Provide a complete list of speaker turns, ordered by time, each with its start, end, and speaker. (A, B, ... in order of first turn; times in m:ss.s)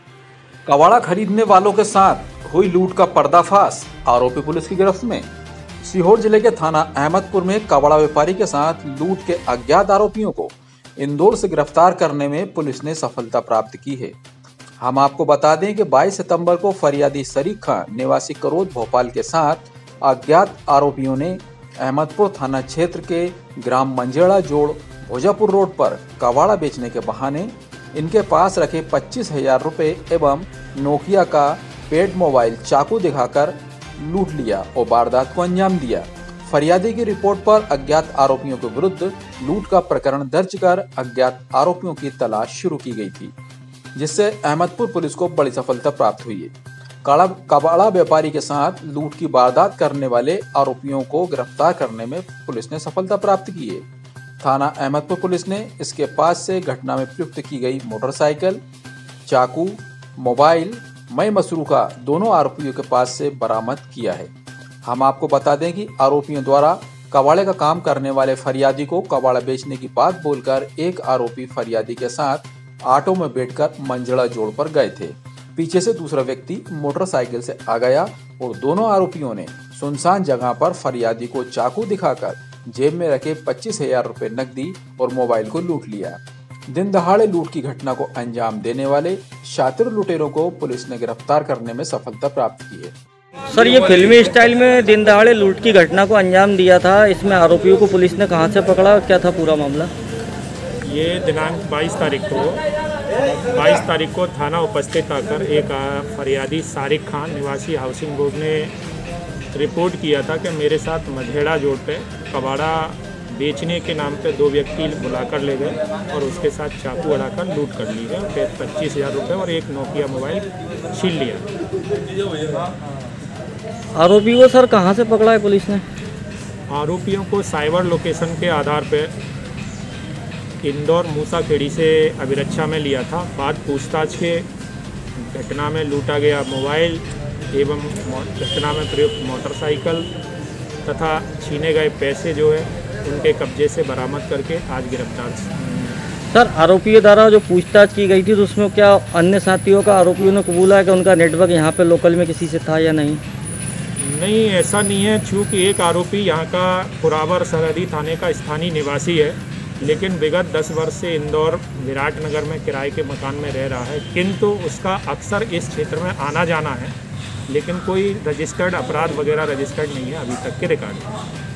0:00.6-0:05.3 A
0:05.8-0:14.2 A
0:14.8-0:43.3 A
0:43.9-0:53.9 A
0:54.4-0:58.6 A
0:59.2-1:04.3 A
1:04.8-1:33.0 A
1:33.5-1:39.9 B
1:40.8-1:42.6 C
1:43.4-1:48.7 C
1:49.5-2:01.4 C
2:04.0-2:05.8 B
2:06.7-2:09.1 C
2:10.6-2:14.4 C
2:15.2-2:20.1 C
2:20.8-2:26.0 C
2:26.3-2:33.2 B
2:34.0-2:46.9 C
2:47.5-2:51.1 C